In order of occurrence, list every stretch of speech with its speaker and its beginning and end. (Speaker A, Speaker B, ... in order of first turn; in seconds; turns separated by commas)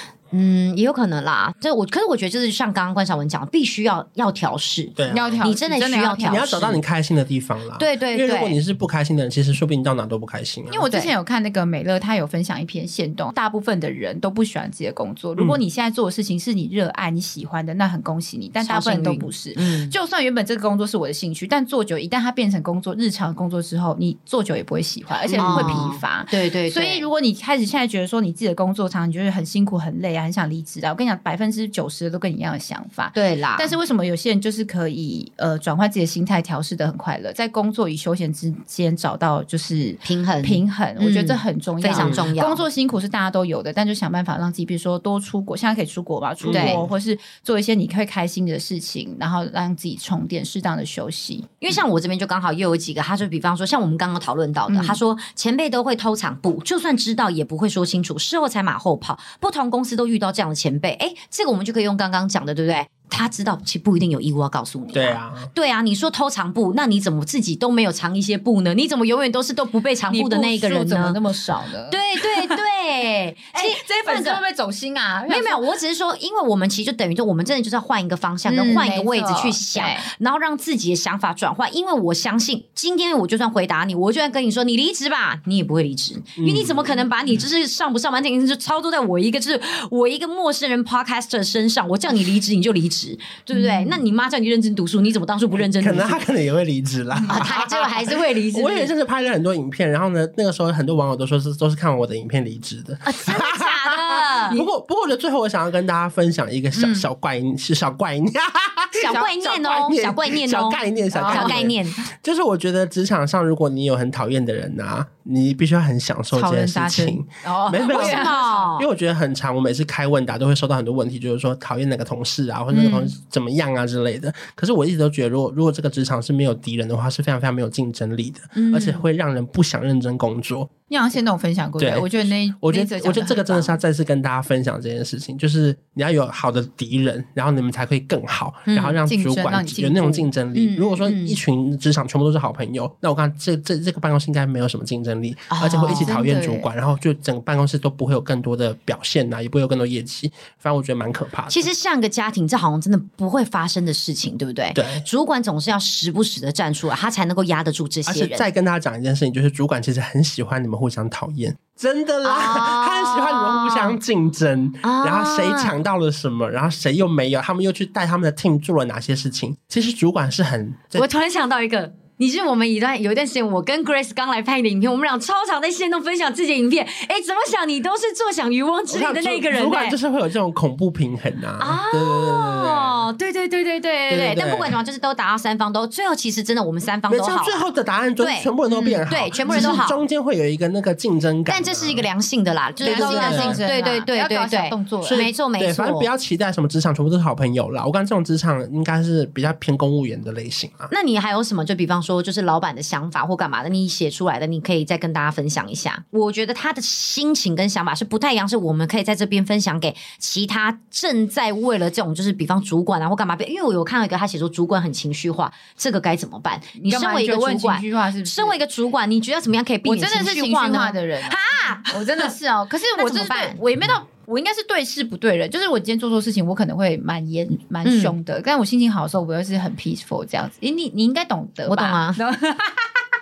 Speaker A: 0.3-6.8, Speaker B: 5.0-5.4, Speaker C: 5.1-6.7, Speaker B: 6.3-10.8, Speaker A: 7.8-8.6, Speaker C: 10.7-51.6, Speaker A: 18.6-19.9, Speaker B: 25.2-25.9, Speaker A: 25.4-27.1, Speaker A: 33.1-33.7, Speaker A: 40.0-42.6, Speaker B: 41.9-42.3, Speaker B: 46.4-46.9, Speaker A: 46.5-46.8, Speaker A: 51.6-71.2, Speaker C: 54.7-55.0, Speaker B: 64.9-65.5, Speaker C: 70.1-72.6, Speaker A: 71.9-74.4, Speaker C: 73.5-75.7, Speaker A: 75.3-96.2, Speaker C: 78.5-80.1, Speaker B: 86.4-86.9, Speaker C: 93.5-94.0, Speaker B: 95.6-130.7, Speaker A: 97.2-98.9, Speaker A: 103.0-104.7, Speaker C: 106.8-107.1, Speaker A: 108.9-112.0, Speaker C: 109.0-110.0, Speaker C: 111.1-111.8, Speaker C: 116.3-118.7, Speaker A: 117.8-118.9, Speaker A: 122.7-123.0, Speaker C: 128.6-129.0, Speaker C: 130.9-133.8, Speaker B: 131.8-151.6, Speaker A: 138.7-139.0, Speaker C: 139.0-140.3, Speaker A: 140.5-141.4, Speaker A: 145.5-146.3, Speaker C: 145.9-146.7, Speaker A: 151.5-158.4, Speaker B: 154.8-155.1, Speaker B: 158.1-171.1, Speaker A: 162.2-164.0, Speaker A: 164.8-165.8, Speaker A: 170.9-180.0, Speaker B: 178.9-183.0, Speaker A: 181.6-187.7, Speaker B: 184.1-184.8, Speaker B: 187.1-192.1, Speaker A: 188.2-188.5, Speaker C: 188.7-189.8, Speaker A: 189.1-190.0, Speaker A: 191.5-196.1, Speaker C: 192.8-195.2, Speaker B: 192.8-193.6, Speaker B: 195.0-200.9, Speaker A: 200.9-222.3, Speaker C: 216.8-218.6, Speaker C: 219.8-233.0, Speaker A: 223.0-223.6, Speaker A: 227.8-228.2, Speaker A: 231.7-232.2